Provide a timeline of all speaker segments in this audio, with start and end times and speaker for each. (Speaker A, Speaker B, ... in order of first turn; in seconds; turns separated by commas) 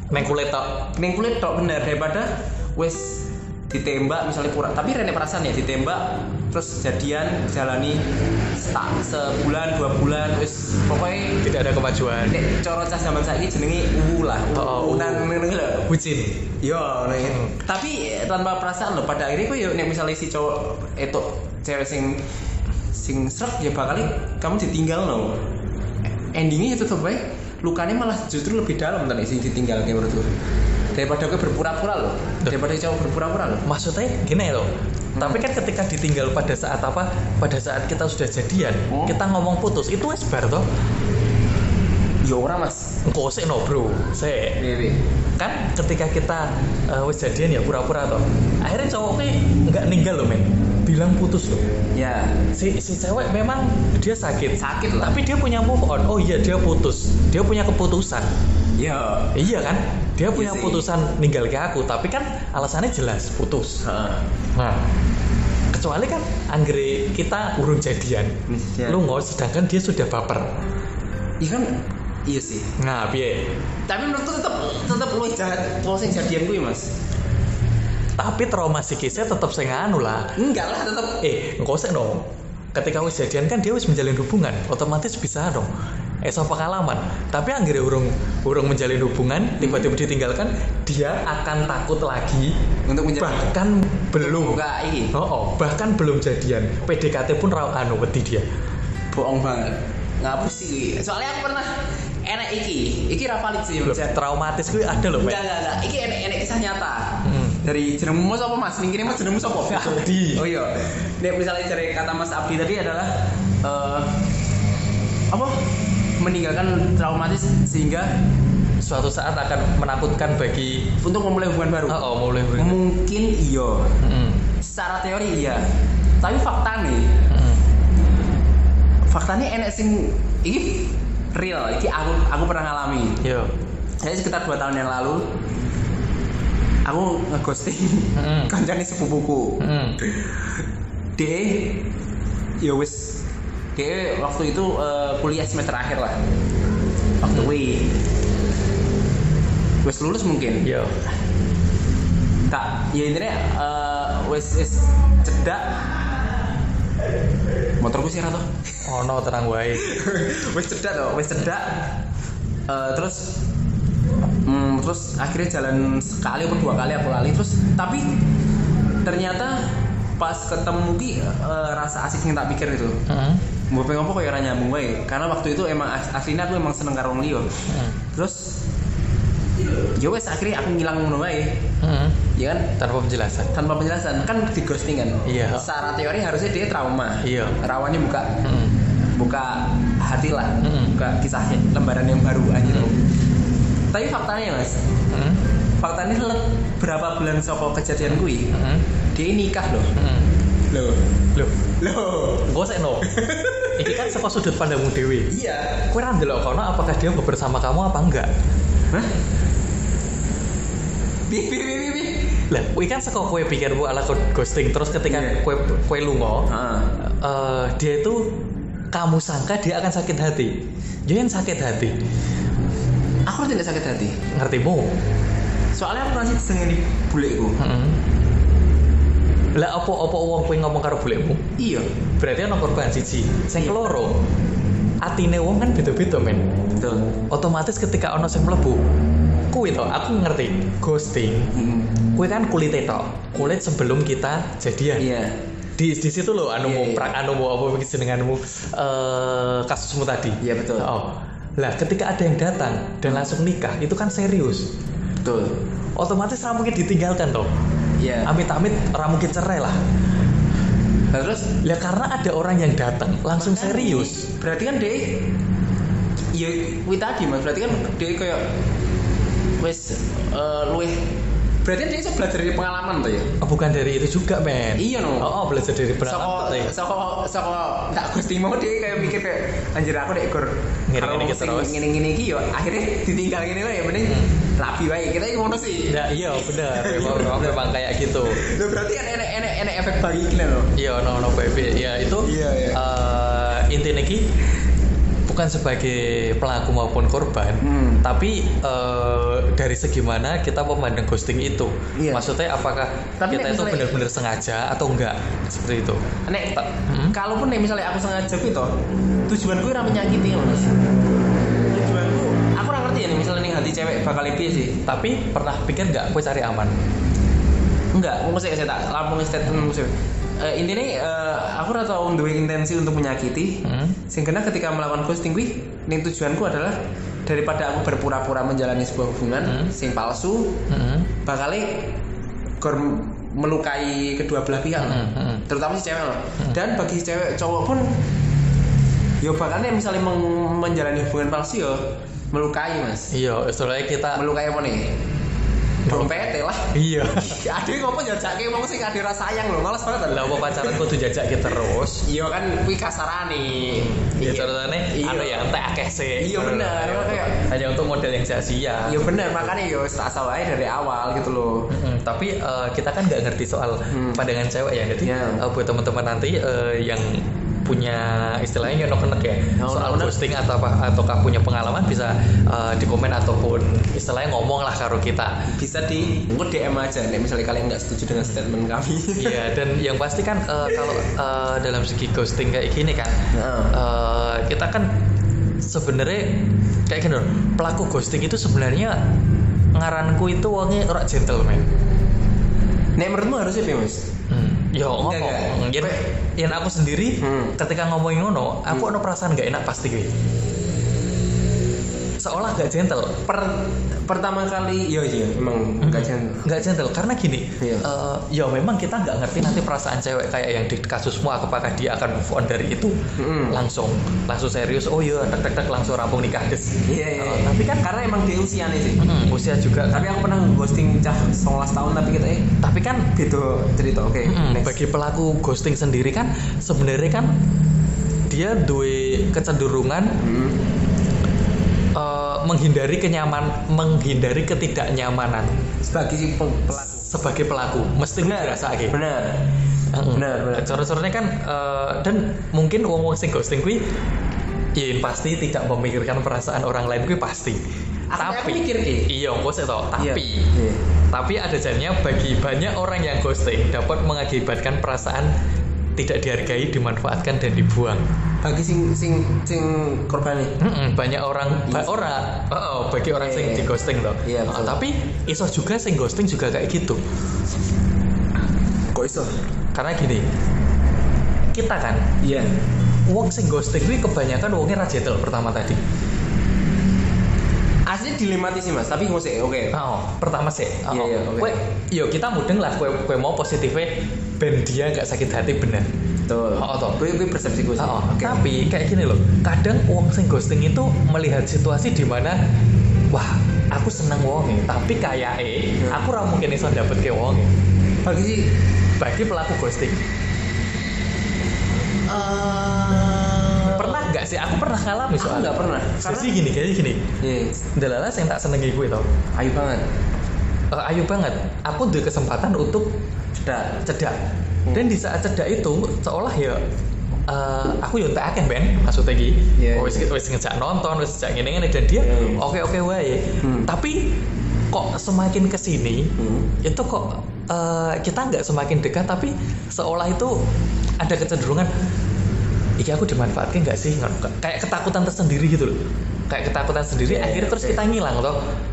Speaker A: 0.1-0.8, Speaker B: 1.0-8.0, Speaker B: 8.6-11.4, Speaker A: 11.4-12.4, Speaker B: 12.3-15.9, Speaker A: 14.5-15.3, Speaker A: 15.9-16.4, Speaker B: 16.6-22.2, Speaker A: 17.2-17.6, Speaker B: 22.9-25.4, Speaker B: 26.3-30.3, Speaker B: 30.9-33.7, Speaker A: 33.7-40.7, Speaker B: 35.1-35.5, Speaker B: 38.9-39.2, Speaker B: 42.2-42.9, Speaker A: 43.0-44.6, Speaker B: 44.6-45.0, Speaker A: 45.4-51.7, Speaker B: 52.0-52.4, Speaker A: 52.5-58.3, Speaker B: 54.6-55.2, Speaker B: 58.8-59.4, Speaker A: 59.3-63.8, Speaker B: 60.3-60.9, Speaker B: 63.8-64.2, Speaker A: 64.5-64.8, Speaker A: 65.7-68.3, Speaker B: 68.5-69.0, Speaker A: 68.9-70.5, Speaker B: 71.4-71.7, Speaker B: 72.3-72.7, Speaker A: 72.8-73.5, Speaker B: 73.9-76.9, Speaker A: 78.2-80.3, Speaker B: 80.4-81.2, Speaker A: 81.2-85.7, Speaker A: 86.2-92.5, Speaker B: 89.6-89.9, Speaker B: 92.9-93.5, Speaker A: 93.2-94.6, Speaker B: 94.2-95.1, Speaker A: 95.1-98.5, Speaker B: 99.1-104.2, Speaker A: 103.8-105.4, Speaker B: 105.2-114.2, Speaker A: 107.2-107.6, Speaker A: 109.7-110.4, Speaker B: 115.3-115.6, Speaker B: 116.2-118.1, Speaker A: 118.8-120.9, Speaker B: 121.0-122.0, Speaker A: 121.9-122.8, Speaker B: 122.5-124.0, Speaker A: 124.0-124.4, Speaker B: 124.6-125.7, Speaker B: 126.2-127.2, Speaker A: 127.3-127.6, Speaker B: 129.1-133.2, Speaker A: 133.2-133.5, Speaker B: 134.0-135.2, Speaker B: 136.8-140.6, Speaker A: 138.2-138.5, Speaker A: 139.6-140.0, Speaker B: 141.2-141.8, Speaker B: 142.6-143.2, Speaker B: 143.8-146.2, Speaker B: 147.2-147.9, Speaker A: 147.3-147.6, Speaker B: 149.8-150.7, Speaker A: 150.6-151.0, Speaker B: 152.5-156.0, Speaker B: 157.8-158.9, Speaker A: 158.8-159.9, Speaker B: 159.8-161.9, Speaker B: 162.7-163.3, Speaker B: 164.5-168.1, Speaker B: 169.0-169.7, Speaker B: 170.2-173.0, Speaker A: 173.1-173.4, Speaker B: 173.7-178.5, Speaker A: 177.7-178.0, Speaker B: 180.0-181.6, Speaker A: 181.8-182.2, Speaker B: 182.3-182.7, Speaker A: 182.8-183.5, Speaker B: 183.5-188.4, Speaker A: 185.3-185.7, Speaker A: 187.2-187.6, Speaker A: 188.4-188.8, Speaker B: 189.1-193.0, Speaker A: 190.6-190.9, Speaker A: 192.7-192.9, Speaker B: 193.9-194.8, Speaker A: 195.1-195.4, Speaker B: 195.8-198.5, Speaker A: 198.0-198.9, Speaker B: 199.2-199.9, Speaker A: 200.0-200.3, Speaker B: 200.7-201.0, Speaker B: 201.8-202.5, Speaker A: 202.4-203.1, Speaker B: 203.0-204.2, Speaker A: 203.8-205.3, Speaker B: 205.3-205.9, Speaker A: 205.9-208.3, Speaker B: 211.3-212.2, Speaker A: 212.5-216.5, Speaker B: 215.1-215.4, Speaker B: 216.5-216.9, Speaker A: 217.1-218.2, Speaker A: 218.9-220.5, Speaker A: 221.1-221.9, Speaker B: 223.3-224.2, Speaker A: 224.3-224.9, Speaker B: 225.8-227.6, Speaker A: 227.6-228.0, Speaker A: 229.6-231.4, Speaker B: 231.6-231.9, Speaker A: 232.2-234.1, Speaker B: 233.6-233.8, Speaker A: 235.0-236.4, Speaker B: 236.8-237.1, Speaker A: 237.3-238.8, Speaker A: 239.5-241.5, Speaker B: 241.5-241.9, Speaker A: 242.2-245.1, Speaker B: 245.0-245.3, Speaker A: 245.8-254.7, Speaker B: 246.6-247.1, Speaker B: 250.4-250.9, Speaker B: 255.2-255.5, Speaker A: 256.0-257.5, Speaker B: 258.0-258.3, Speaker A: 258.2-259.8, Speaker B: 261.1-261.5, Speaker A: 261.6-264.2, Speaker B: 263.4-265.2, Speaker B: 266.3-268.4, Speaker B: 269.6-271.0, Speaker B: 271.6-273.3, Speaker A: 273.4-276.7, Speaker B: 274.8-275.3, Speaker B: 276.0-287.6, Speaker A: 280.9-281.8, Speaker A: 285.9-288.4, Speaker B: 288.2-290.7, Speaker A: 290.8-294.2, Speaker B: 292.2-292.8, Speaker A: 295.3-306.0, Speaker B: 297.6-298.0, Speaker B: 302.0-302.3, Speaker B: 303.2-303.9, Speaker B: 306.3-308.7, Speaker A: 306.9-307.1, Speaker B: 309.3-310.7, Speaker B: 311.7-314.8, Speaker A: 314.7-316.8, Speaker B: 317.9-330.6, Speaker A: 323.6-324.0, Speaker A: 329.5-329.7, Speaker A: 330.7-331.1, Speaker B: 331.2-331.9, Speaker B: 332.6-337.9, Speaker A: 334.8-335.4, Speaker B: 339.2-343.1, Speaker A: 343.1-344.2, Speaker B: 344.1-344.9, Speaker A: 345.9-347.4, Speaker B: 345.9-350.8, Speaker A: 350.1-352.0, Speaker B: 352.0-355.5, Speaker A: 353.6-359.5, Speaker B: 356.2-357.4, Speaker B: 358.9-361.7, Speaker A: 361.7-375.4, Speaker B: 363.9-364.2, Speaker B: 365.0-365.4, Speaker B: 369.6-370.1, Speaker B: 375.5-379.4, Speaker A: 378.1-378.4, Speaker A: 379.2-383.1, Speaker B: 383.3-383.8, Speaker A: 383.7-384.9, Speaker A: 385.6-386.2, Speaker A: 386.9-389.0, Speaker A: 389.8-391.7, Speaker B: 393.0-394.0, Speaker A: 394.3-400.1, Speaker B: 395.0-396.0, Speaker B: 397.2-397.6, Speaker B: 398.7-398.9, Speaker A: 402.2-403.2, Speaker B: 403.3-406.5, Speaker A: 405.8-413.0, Speaker B: 407.6-407.9, Speaker B: 413.2-413.6, Speaker A: 413.5-417.9, Speaker B: 416.9-419.0, Speaker A: 419.0-420.1, Speaker B: 419.9-422.5, Speaker A: 422.6-423.1, Speaker B: 423.1-424.8, Speaker A: 424.2-427.3, Speaker A: 428.3-430.1, Speaker B: 430.2-430.6, Speaker A: 431.9-435.5, Speaker B: 435.9-437.1, Speaker A: 436.9-439.0, Speaker B: 438.2-439.4, Speaker A: 439.9-443.8, Speaker B: 440.1-440.8, Speaker A: 444.8-447.6, Speaker B: 448.1-449.1, Speaker A: 448.2-450.5, Speaker B: 450.0-450.8, Speaker A: 451.1-455.3, Speaker A: 456.0-458.1, Speaker B: 458.4-460.6, Speaker A: 460.6-467.0, Speaker B: 461.7-461.9, Speaker B: 463.2-463.7, Speaker B: 464.2-464.8, Speaker B: 468.9-469.3, Speaker A: 469.7-470.2, Speaker A: 471.5-472.1, Speaker B: 472.2-472.5, Speaker A: 473.1-475.8, Speaker B: 477.9-479.8, Speaker A: 479.7-485.9, Speaker B: 480.9-481.6, Speaker B: 486.3-488.4, Speaker A: 486.6-487.0, Speaker A: 487.8-492.4, Speaker A: 493.1-497.5, Speaker B: 498.0-498.5, Speaker A: 499.0-500.0, Speaker B: 502.1-504.1, Speaker A: 503.7-507.0, Speaker B: 505.2-506.3, Speaker B: 507.2-507.6, Speaker A: 507.8-509.1, Speaker B: 509.4-509.9, Speaker A: 510.7-512.9, Speaker B: 513.4-513.8, Speaker A: 513.9-514.2, Speaker A: 514.7-516.6, Speaker A: 517.3-524.0, Speaker B: 519.6-520.1, Speaker B: 522.0-522.4, Speaker B: 523.4-523.7, Speaker A: 524.7-526.1, Speaker B: 526.2-526.5, Speaker A: 526.6-530.3, Speaker A: 531.0-531.7, Speaker A: 532.8-535.8, Speaker A: 536.3-538.4, Speaker B: 537.1-537.8